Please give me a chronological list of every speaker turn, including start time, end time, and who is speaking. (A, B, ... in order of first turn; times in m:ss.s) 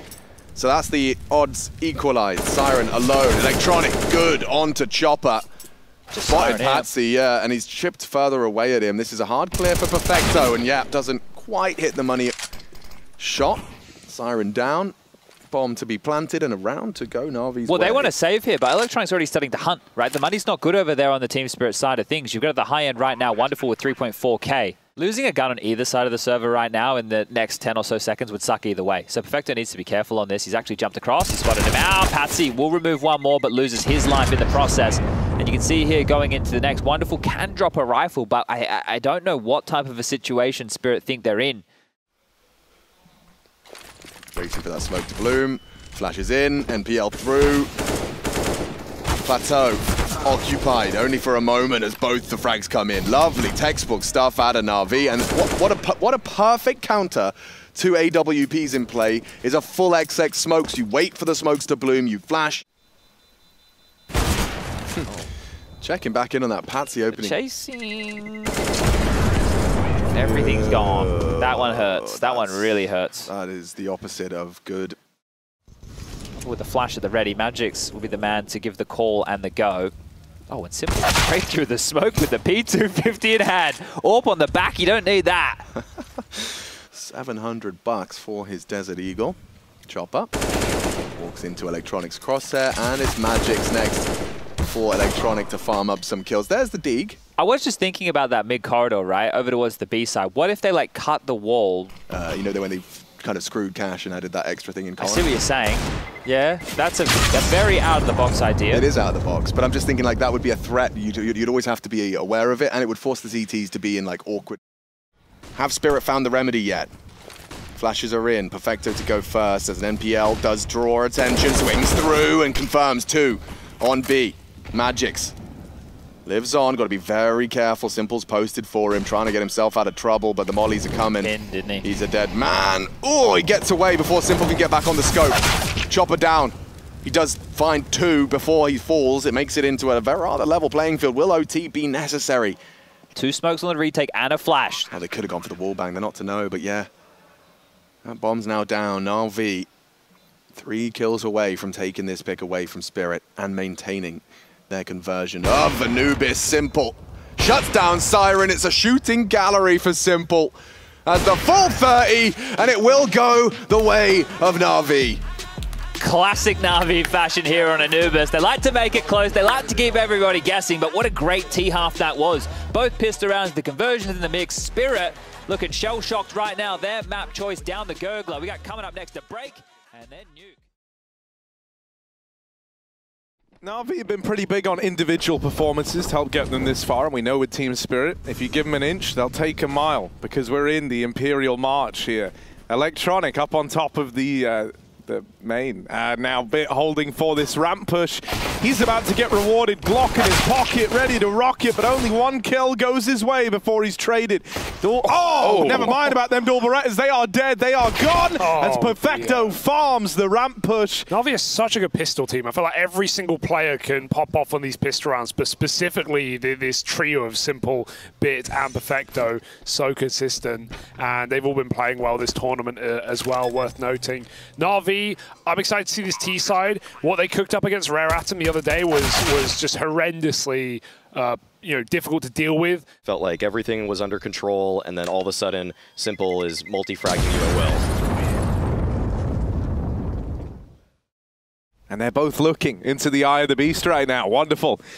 0:00.6-0:05.5 A
0:06.1-0:06.9 B
0:06.3-0:12.4 A
0:13.2-0:15.0 A
0:15.5-0:18.1 A
0:17.7-0:41.6 B
0:44.3-0:47.7 A
0:49.2-1:02.6 A
1:05.8-1:07.4 A
1:07.1-1:08.7 B
1:10.1-1:13.3 B
1:10.2-1:15.0 A
1:16.4-1:19.9 B
1:20.5-1:25.7 B
1:26.9-1:29.4 A
1:29.9-1:30.3 A
1:31.2-1:37.2 A
1:37.4-1:41.9 B
1:42.1-1:45.3 A
1:45.0-1:48.8 B
1:48.7-1:54.6 A
1:55.6-1:56.9 A
1:57.8-2:05.4 A
2:06.3-2:22.6 A
2:11.2-2:11.8 B
2:23.2-2:24.9 B
2:24.9-2:26.9 A
2:28.0-2:29.7 A
2:30.5-2:45.2 A
2:46.0-3:00.6 B
3:03.6-3:31.1 C
3:25.1-3:26.2 D
3:28.4-3:29.6 D
3:31.1-3:52.9 D
3:53.1-3:57.9 E
4:01.9-4:04.8 C